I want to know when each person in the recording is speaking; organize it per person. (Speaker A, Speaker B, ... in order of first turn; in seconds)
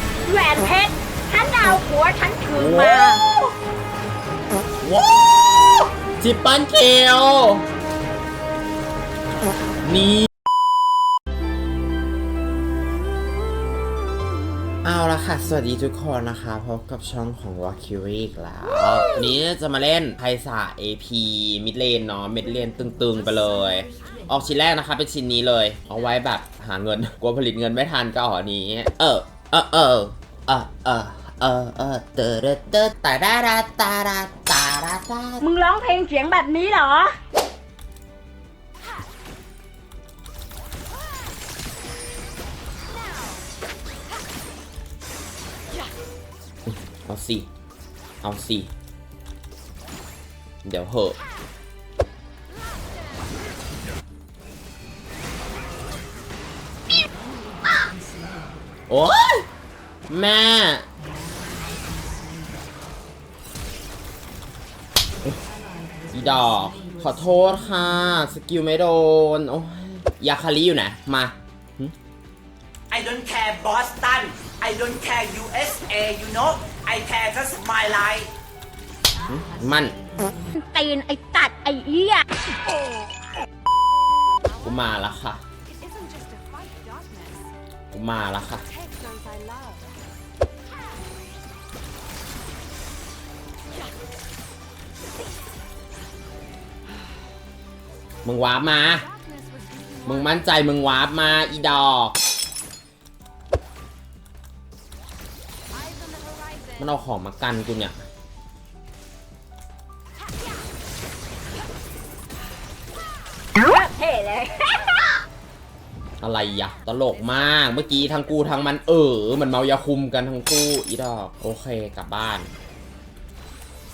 Speaker A: 0.2-3.2, 35.4-37.1, 80.5-82.2, 113.6-115.2
Speaker B: 2.6-3.5, 4.8-7.7, 9.8-10.3, 14.8-35.5, 46.7-47.5, 48.2-48.7, 50.6-51.2, 58.9-59.5, 60.1-60.9, 66.1-71.9, 79.3-80.0, 84.6-85.4, 87.9-88.7, 98.2-99.1, 100.0-102.2, 106.8-108.0, 116.2-122.5
Speaker C: 72.9-78.3
Speaker D: 85.8-87.5, 88.8-89.9, 99.2-99.9, 106.0-106.6